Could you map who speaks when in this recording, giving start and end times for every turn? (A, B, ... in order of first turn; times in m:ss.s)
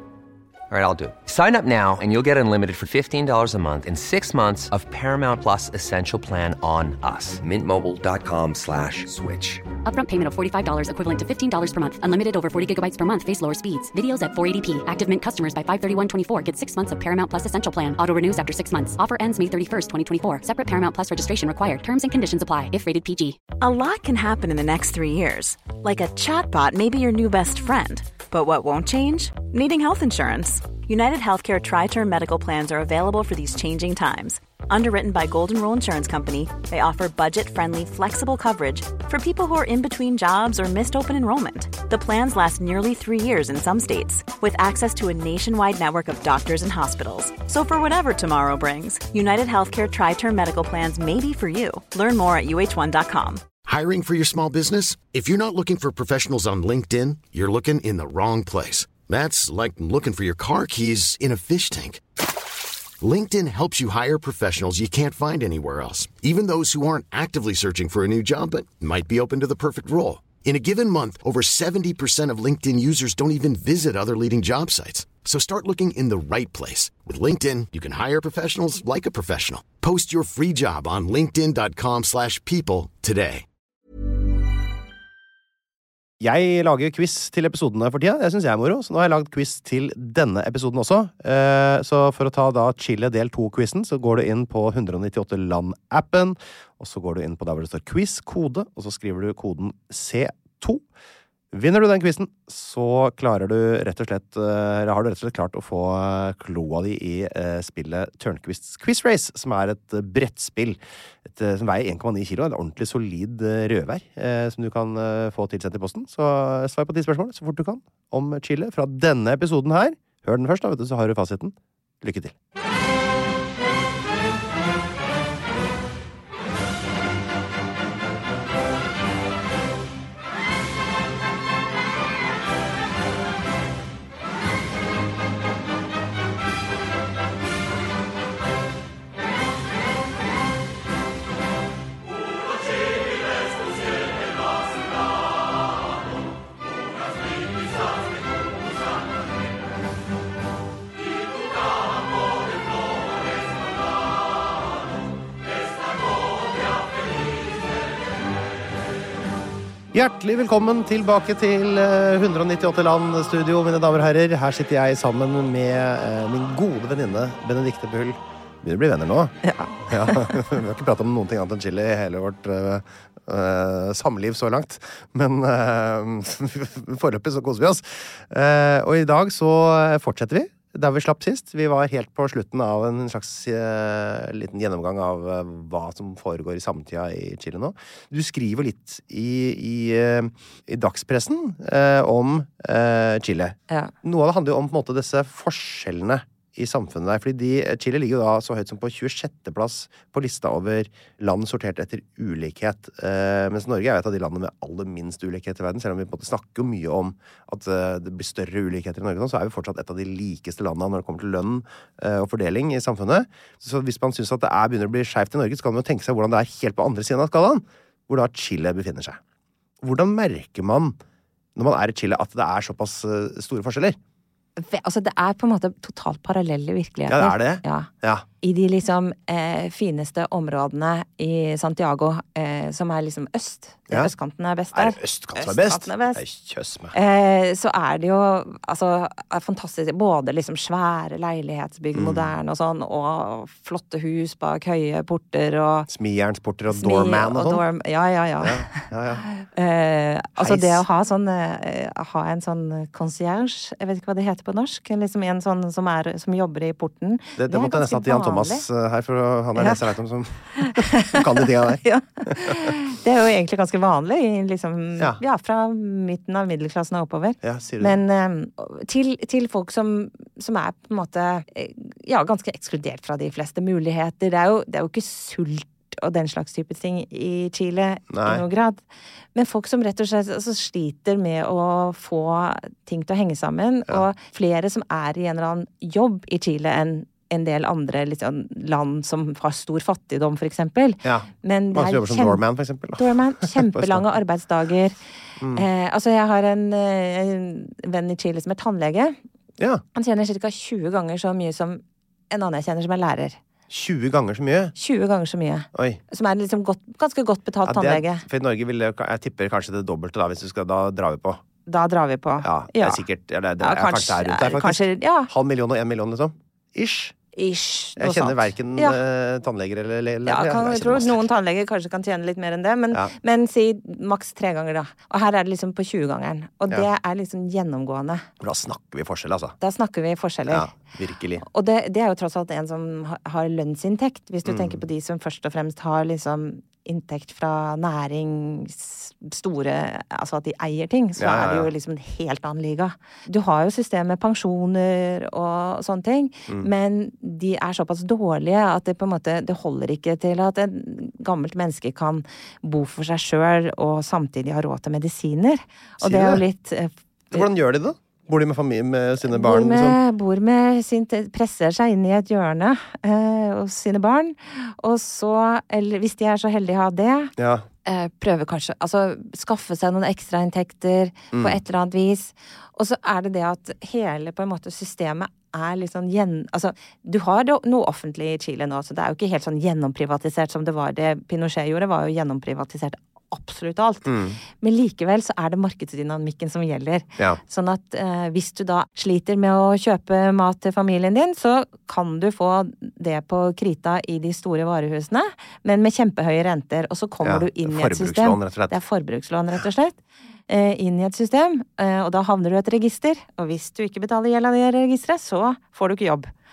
0:00.7-0:09.6 A
0:09.8-0:23.4 B
0:23.6-0:53.4 C
0:53.6-1:02.0 D
1:03.0-1:23.4 D
1:26.2-1:40.8 E
1:41.5-2:02.3 E
2:39.9-2:49.4 E
2:49.4-2:50.4 F
2:49.9-3:39.2 E
3:39.8-3:41.0 E
3:41.6-3:44.0 E
3:44.6-3:47.9 F
3:47.1-3:48.2 E
3:48.4-3:56.2 F
3:54.7-3:56.9 E
3:56.9-4:05.9 F
4:01.9-4:02.3 E
4:05.9-4:07.6 E
4:06.7-4:18.6 F
4:08.4-4:09.3 E
4:10.4-4:10.8 E
4:17.4-4:22.7 E
4:19.6-4:19.8 F
4:20.6-4:38.8 F
4:27.4-4:28.0 E
4:38.1-4:38.4 E
4:39.3-4:52.4 F
4:51.0-4:54.0 E
4:53.0-4:55.0 F
4:55.4-4:55.6 E
4:55.5-4:59.2 F
4:59.9-5:03.4 F
5:03.7-5:04.7 E
5:04.7-5:08.2 F
5:05.7-5:06.0 E
5:07.6-5:11.4 E
5:11.6-5:13.0 F
5:12.4-5:17.1 E
5:13.6-5:15.3 F
5:17.3-5:19.0 F
5:18.0-5:21.2 E
5:20.2-5:28.3 F
5:28.4-5:29.6 E
5:29.6-5:30.7 F
5:30.5-5:31.4 E
5:31.4-5:57.4 F
5:34.4-5:34.8 E
5:41.2-5:41.7 E
5:56.0-5:56.4 E
5:57.3-6:00.0 E
5:59.3-6:07.3 F
6:07.4-6:07.6 E
6:07.8-6:40.0 F
6:11.3-6:11.6 E
6:24.0-6:24.4 E
6:37.2-6:38.8 E
6:40.5-6:46.3 F